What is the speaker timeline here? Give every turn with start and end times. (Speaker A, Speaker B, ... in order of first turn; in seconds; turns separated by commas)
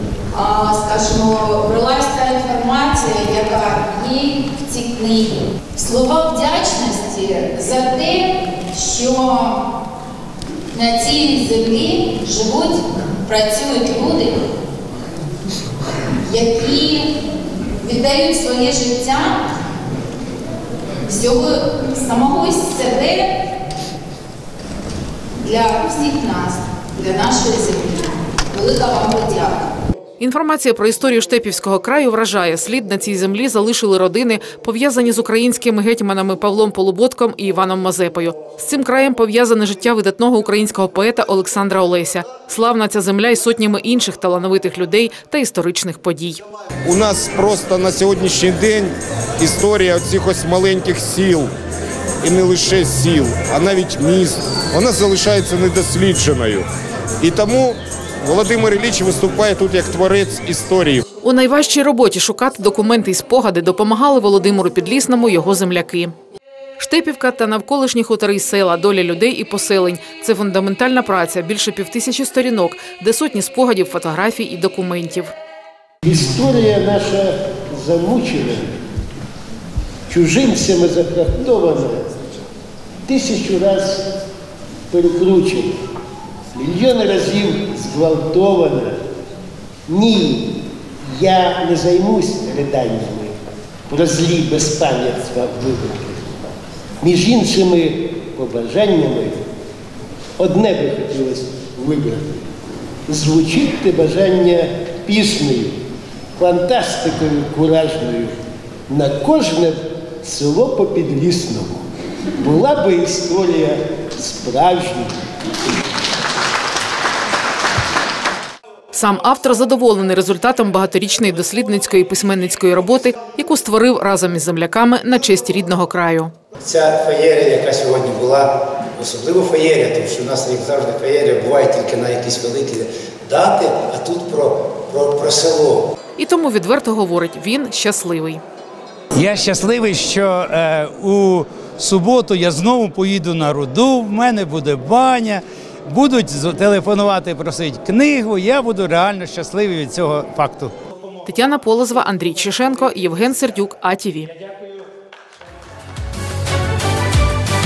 Speaker A: 0.3-9.3, Speaker A: 10.8-13.9, Speaker A: 16.3-17.1, Speaker A: 17.8-19.4, Speaker A: 21.1-23.3, Speaker A: 25.4-27.9, Speaker A: 28.5-29.7, Speaker B: 30.2-46.4, Speaker C: 46.9-51.5, Speaker C: 52.2-56.7, Speaker C: 57.2-61.0, Speaker B: 61.2-66.2, Speaker B: 66.8-75.3, Speaker D: 76.0-78.7, Speaker D: 80.1-82.1, Speaker D: 83.1-84.1, Speaker D: 84.9-85.8, Speaker D: 86.5-89.0, Speaker D: 89.9-93.3, Speaker D: 93.9-96.4, Speaker D: 97.0-99.4, Speaker D: 100.4-102.4, Speaker D: 103.1-105.8, Speaker D: 106.4-108.4, Speaker D: 108.9-111.8, Speaker D: 112.4-115.2, Speaker B: 118.9-126.3, Speaker E: 126.6-135.8, Speaker B: 136.2-138.4, Speaker F: 139.1-150.7, Speaker B: 151.3-154.3